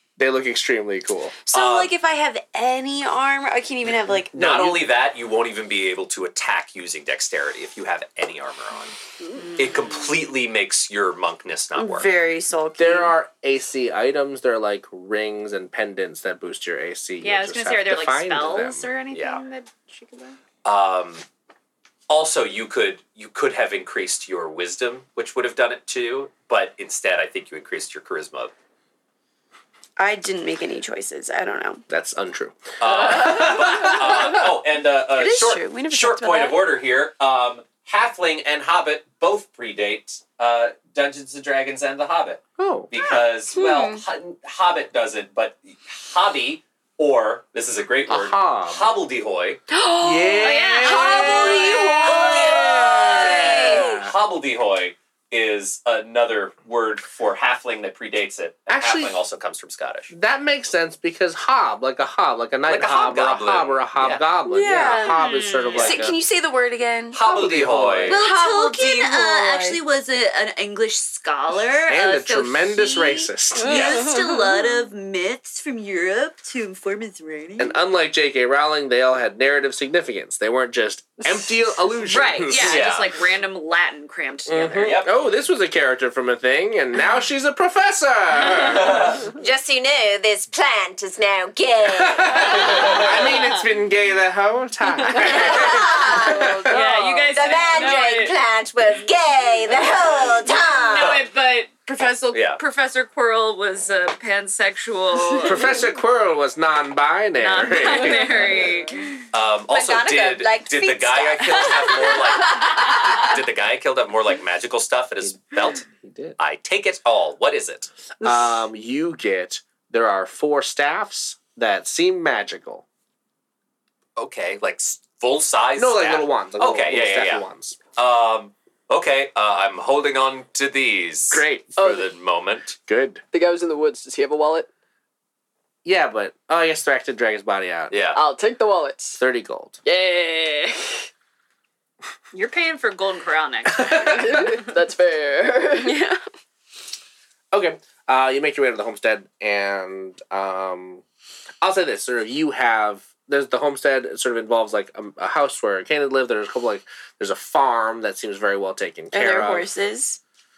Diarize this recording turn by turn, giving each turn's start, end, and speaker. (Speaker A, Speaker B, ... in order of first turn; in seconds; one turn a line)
Speaker A: 0.2-1.3
Speaker B: 1.5-4.8
Speaker C: 1.5-1.9
Speaker C: 4.3-8.9
Speaker A: 4.3-4.8
Speaker D: 9.3-10.2
Speaker C: 9.6-12.1
Speaker B: 11.7-13.1
Speaker A: 12.8-18.9
Speaker D: 17.2-20.4
Speaker C: 19.1-19.4
Speaker C: 20.6-21.2
Speaker C: 22.1-28.5
Speaker B: 30.0-31.8
Speaker A: 31.9-34.4
Speaker C: 32.8-49.6
Speaker B: 35.1-36.7
Speaker A: 42.6-42.9
Speaker B: 43.5-44.0
Speaker A: 48.1-48.9
Speaker B: 49.7-54.0
Speaker A: 50.0-51.7
Speaker D: 50.4-52.4
Speaker E: 52.0-53.6
Speaker A: 52.4-54.1
Speaker C: 53.2-60.1
Speaker A: 58.7-59.1
Speaker A: 60.1-66.2
Speaker C: 62.7-64.2
Speaker B: 64.5-65.2
Speaker D: 64.9-66.0
Speaker B: 65.7-67.2
Speaker C: 67.1-68.2
Speaker A: 67.2-68.2
Speaker B: 68.1-69.8
Speaker D: 68.1-77.7
Speaker E: 68.2-68.7
Speaker A: 71.9-73.9
Speaker C: 73.6-74.0
Speaker F: 73.6-74.2
Speaker B: 74.3-74.7
Speaker A: 77.6-82.9
Speaker D: 82.0-85.0
Speaker C: 82.5-83.1
Speaker A: 84.5-89.2
Speaker C: 84.8-85.1
Speaker C: 88.6-89.3
Speaker E: 89.2-93.0
Speaker A: 91.9-96.7
Speaker C: 92.7-93.1
Speaker D: 93.0-93.6
Speaker D: 95.1-95.7
Speaker E: 95.3-96.6
Speaker F: 96.1-98.0
Speaker D: 96.7-98.3
Speaker E: 97.3-101.2
Speaker D: 100.3-105.8
Speaker C: 102.3-102.6
Speaker A: 105.4-108.3
Speaker D: 107.4-109.2
Speaker F: 108.2-108.9
Speaker C: 109.3-115.8
Speaker E: 109.7-112.4
Speaker A: 115.2-116.4
Speaker C: 116.4-118.1
Speaker A: 118.2-122.8
Speaker C: 124.2-132.8
Speaker A: 125.8-127.8
Speaker A: 131.3-131.8
Speaker F: 131.8-132.1
Speaker A: 132.8-133.2
Speaker F: 133.3-134.7
Speaker A: 135.8-137.9
Speaker C: 137.9-138.2
Speaker F: 138.1-139.2
Speaker A: 139.2-139.8
Speaker F: 139.8-141.1
Speaker D: 142.3-144.7
Speaker A: 143.8-144.2
Speaker F: 144.0-145.9
Speaker B: 145.8-146.2
Speaker A: 147.5-151.0
Speaker A: 151.6-159.7
Speaker B: 159.1-160.2